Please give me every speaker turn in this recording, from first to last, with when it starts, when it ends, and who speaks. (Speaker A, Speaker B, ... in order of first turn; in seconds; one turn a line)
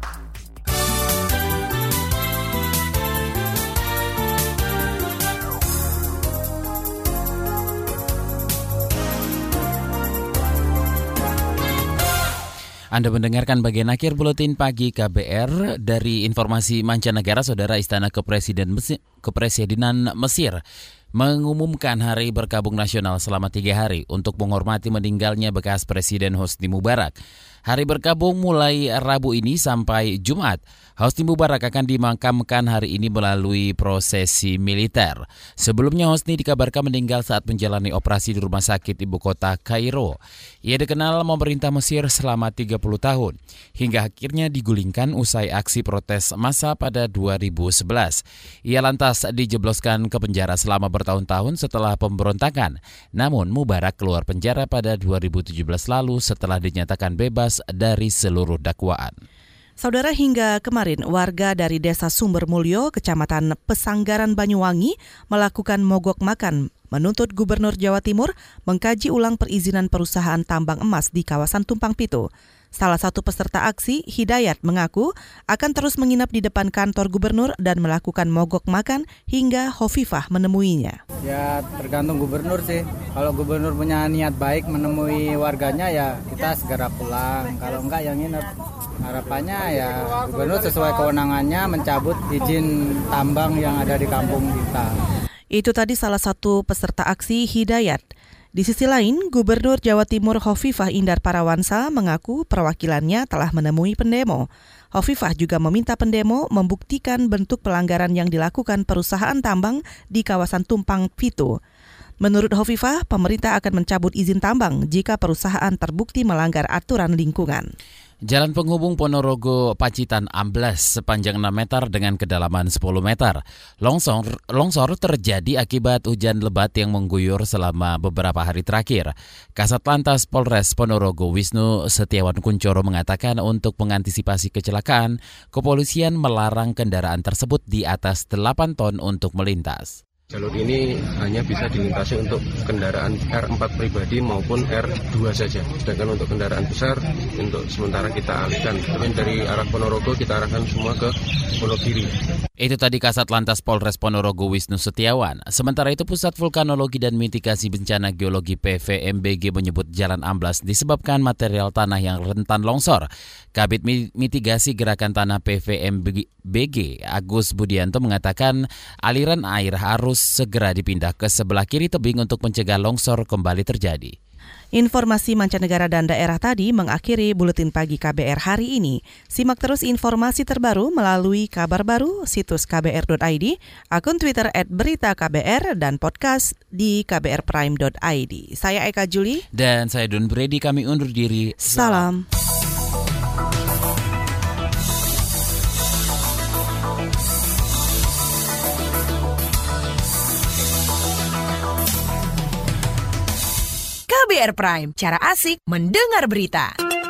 Speaker A: 12.9-20.6
Speaker A: 21.1-59.1
Speaker B: 59.8-81.0
Speaker C: 81.2-88.5
Speaker C: 89.0-94.9
Speaker B: 95.5-98.0
Speaker B: 98.5-111.6
Speaker B: 112.2-117.7
Speaker A: 118.3-140.0
Speaker D: 140.3-152.1
Speaker A: 152.6-174.2
Speaker B: 174.8-189.4
Speaker A: 189.5-192.1
Speaker B: 191.6-192.2
Speaker E: 204.1-206.7